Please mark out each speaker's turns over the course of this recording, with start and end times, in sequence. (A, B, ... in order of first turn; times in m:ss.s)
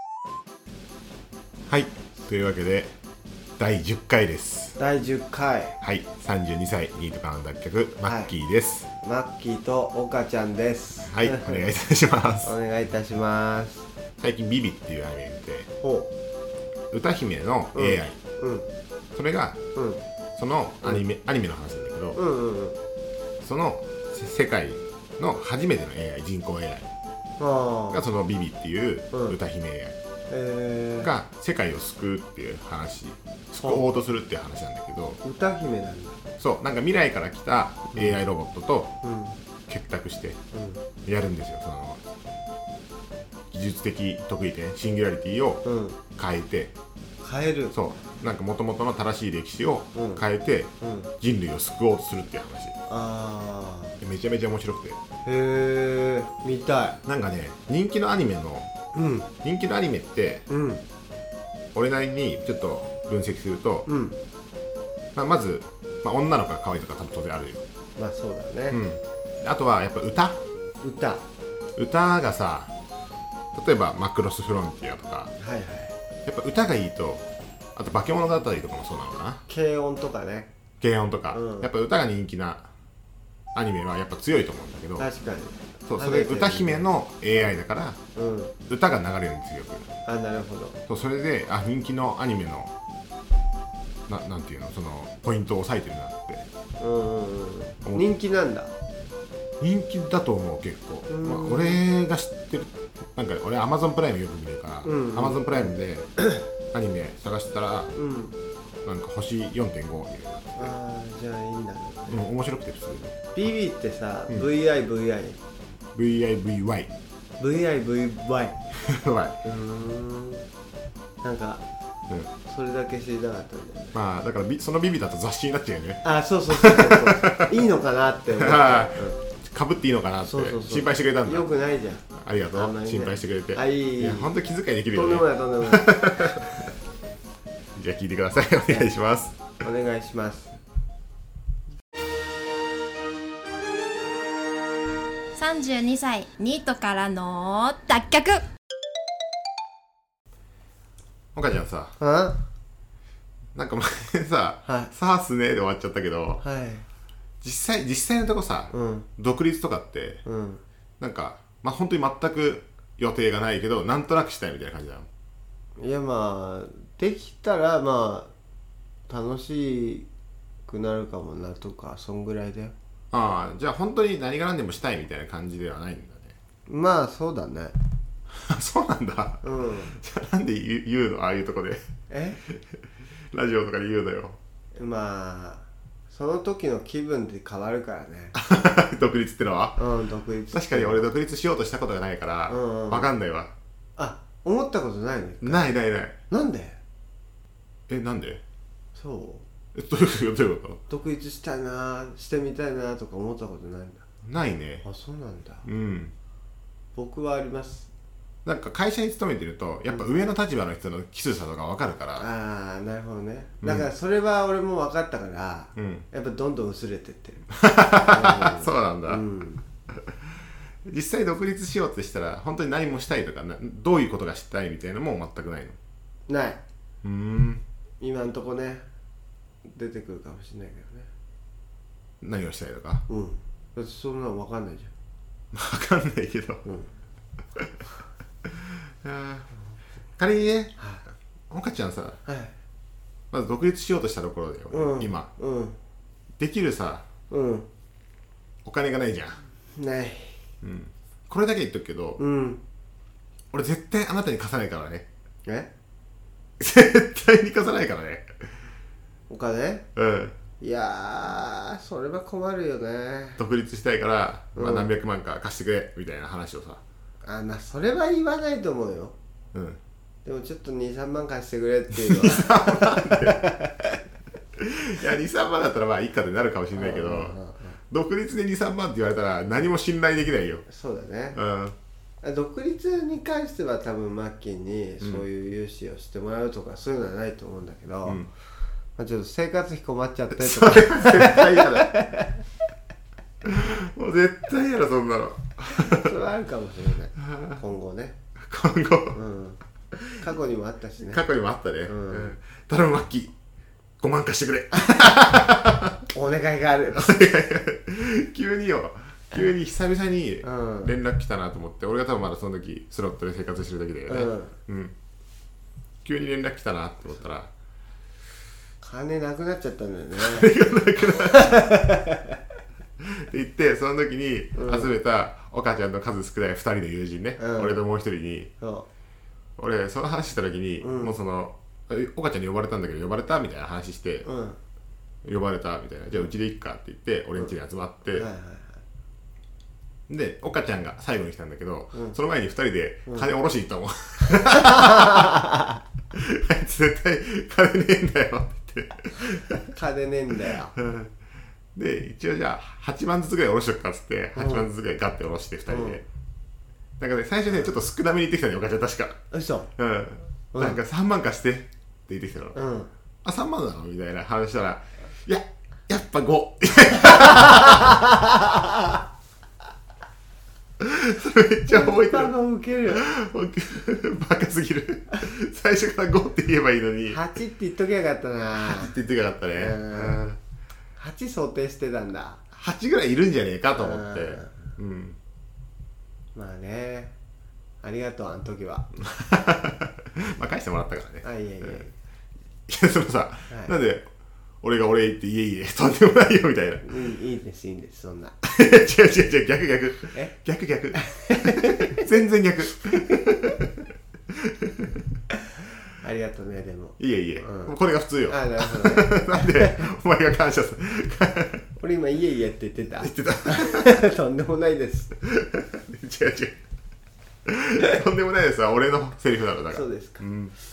0:01.7-0:02.9 A
0:03.6-0:04.8 A
0:04.8-0:05.8 B
0:05.8-0:08.9 A
0:08.0-0:08.3 B
0:09.0-0:11.7 B
0:11.1-0:12.5 A
0:12.4-0:13.9 B
0:14.2-0:15.7 A
0:15.8-0:16.1 B
0:16.9-0:18.2 A
0:17.7-0:18.7 B
0:19.1-0:19.6 A
0:19.8-0:20.0 B
0:20.4-0:22.2 A
0:22.1-0:22.8 B
0:23.4-0:26.9 A
0:27.4-0:28.0 B
0:27.9-0:30.0 A
0:30.3-0:31.1 B
0:31.0-0:35.2 A
0:35.2-0:36.2 B
0:36.4-0:39.0 A
0:39.0-0:39.4 B
0:39.7-0:40.4 A
0:40.5-0:40.8 B
0:41.0-0:42.0 A
0:43.5-0:46.7 A
0:45.6-0:46.0 B
0:47.2-0:47.8 B
0:47.7-0:52.8 A
0:50.0-0:50.2 B
0:50.8-0:51.1 B
0:52.9-0:54.0 B
0:54.0-0:55.0 A
0:55.2-0:57.0 B
0:57.1-0:58.7 A
0:58.9-0:59.3 B
0:59.4-1:00.4 A
1:00.5-1:00.8 B
1:01.7-1:03.9 A
1:03.9-1:04.2 B
1:05.2-1:07.6 A
1:08.0-1:08.8 B
1:08.7-1:10.4 A
1:10.8-1:11.2 B
1:11.8-1:12.7 A
1:13.5-1:15.3 A
1:15.4-1:16.0 B
1:16.3-1:19.4 A
1:19.5-1:20.5 B
1:20.8-1:22.7 A
1:21.3-1:21.7 B
1:23.5-1:25.1 A
1:25.0-1:26.9 B
1:25.9-1:28.0 A
1:28.2-1:28.5 B
1:28.7-1:29.9 A
1:30.1-1:30.8 B
1:30.9-1:32.7 A
1:34.1-1:36.5 A
1:36.8-1:38.7 B
1:39.6-1:46.1 A
1:41.1-1:41.8 B
1:44.8-1:46.4 B
1:46.7-1:47.9 A
1:48.0-1:48.4 B
1:48.8-1:50.7 A
1:50.6-1:52.2 B
1:52.1-1:53.3 A
1:53.3-1:55.4 B
1:55.9-1:56.9 A
1:57.4-1:58.6 B
1:58.8-1:59.4 A
1:59.4-2:00.5 B
2:01.2-2:01.6 B
2:02.4-2:04.0 B
2:03.9-2:07.6 A
2:06.0-2:09.2 B
2:08.4-2:11.5 A
2:10.2-2:14.3 B
2:12.1-2:16.7 A
2:14.9-2:16.4 B
2:17.8-2:19.4 A
2:19.6-2:20.5 B
2:25.4-2:28.4 C
2:31.4-2:32.0 A
2:32.0-2:32.4 B
2:33.6-2:36.4 A
2:34.6-2:34.9 B
2:36.4-2:36.9 B
2:37.4-2:40.2 A
2:38.7-2:39.1 B
2:40.2-2:40.6 B
2:41.0-2:45.1 A
2:45.8-2:48.3 B
2:49.1-2:50.1 B
2:50.7-2:52.8 B
2:53.1-2:56.4 A
2:56.7-2:57.7 B
2:58.3-3:01.9 A
2:59.4-3:00.0 B
3:02.1-3:02.4 B
3:02.5-3:02.8 A
3:03.3-3:04.4 A
3:04.8-3:08.4 B
3:08.4-3:09.8 A
3:09.8-3:11.1 B
3:10.5-3:13.5 A
3:12.5-3:13.1 B
3:14.0-3:15.7 B
3:15.4-3:16.2 A
3:16.3-3:16.8 B
3:17.9-3:18.4 A
3:19.0-3:19.5 B
3:19.7-3:20.8 A
3:20.9-3:24.0 B
3:24.2-3:24.8 A
3:24.8-3:25.7 B
3:25.6-3:26.1 A
3:27.0-3:27.9 B
3:28.4-3:32.3 A
3:32.2-3:37.5 B
3:33.6-3:33.9 A
3:35.8-3:36.0 A
3:37.6-3:39.2 A
3:38.0-3:39.6 B
3:39.9-3:40.2 A
3:40.8-3:45.8 A
3:46.3-3:46.6 B
3:47.0-3:47.6 A
3:48.0-3:48.9 B
3:49.6-3:51.1 B
3:52.2-3:53.1 A
3:53.1-3:54.9 B
3:55.5-3:56.6 A
3:58.4-3:59.5 A
4:00.2-4:00.8 A
4:00.8-4:01.0 B
4:01.5-4:02.2 A
4:02.2-4:02.5 B
4:03.3-4:05.3 A
4:04.7-4:05.8 B
4:06.4-4:07.1 A
4:07.3-4:07.7 B
4:08.6-4:09.4 A
4:09.8-4:10.4 B
4:10.6-4:12.2 A
4:12.2-4:12.6 B
4:13.5-4:15.1 A
4:16.6-4:18.5 A
4:19.3-4:19.9 B
4:20.0-4:20.4 A
4:20.6-4:23.4 B
4:23.4-4:26.8 A
4:24.6-4:24.9 B
4:27.2-4:29.2 B
4:29.5-4:29.8 A
4:30.2-4:34.0 B
4:31.9-4:33.5 A
4:34.6-4:37.4 A
4:36.7-4:37.8 B
4:37.9-4:40.6 A
4:40.7-4:41.4 B
4:41.3-4:41.8 A
4:42.2-4:48.2 B
4:49.0-4:52.4 B
4:50.4-4:52.0 A
4:53.4-4:56.2 A
4:55.7-4:58.2 B
4:57.2-4:57.6 A
4:58.4-4:59.2 A
4:59.1-4:59.6 B
5:00.2-5:01.2 B
5:01.0-5:03.3 A
5:01.8-5:02.4 B
5:04.0-5:06.0 A
5:06.1-5:07.1 B
5:07.0-5:14.9 A
5:10.4-5:10.9 B
5:14.1-5:14.6 B
5:16.0-5:17.5 A
5:18.8-5:20.5 B
5:20.2-5:21.9 A
5:21.2-5:22.4 B
5:23.0-5:28.5 A
5:24.6-5:24.9 B
5:27.4-5:27.8 B
5:28.6-5:28.9 B
5:29.6-5:34.3 A
5:30.8-5:31.2 B
5:34.2-5:34.6 B
5:35.2-5:38.3 A
5:38.1-5:38.8 B
5:40.1-5:45.4 A
5:41.9-5:42.2 B
5:44.5-5:45.8 B
5:46.1-5:49.7 A
5:49.6-5:50.8 B
5:50.8-5:51.1 A
5:51.8-5:56.0 A
5:54.4-5:54.7 B
5:55.7-5:56.0 B
5:57.0-5:59.2 A
5:59.3-5:59.7 B
5:59.8-6:02.6 A
6:00.5-6:00.8 B
6:02.5-6:02.9 B
6:03.2-6:08.0 A
6:07.0-6:08.7 B
6:10.8-6:12.3 A
6:11.7-6:13.1 B
6:12.9-6:17.2 A
6:17.1-6:18.9 B
6:18.6-6:20.4 A
6:19.6-6:20.2 B
6:21.0-6:22.4 B
6:22.5-6:25.2 A
6:23.8-6:24.6 B
6:26.4-6:27.2 B
6:27.8-6:28.9 B
6:29.0-6:31.8 A
6:31.2-6:31.9 B
6:32.7-6:34.0 A
6:33.5-6:33.7 B
6:34.6-6:36.9 A
6:36.8-6:38.3 B
6:38.4-6:45.0 A
6:41.0-6:42.1 B
6:46.0-6:49.8 B
6:47.0-6:51.7 A
6:51.8-6:55.2 B
6:53.0-6:54.0 A
6:55.2-6:56.6 A
6:57.4-7:00.5 A
6:59.7-7:00.2 B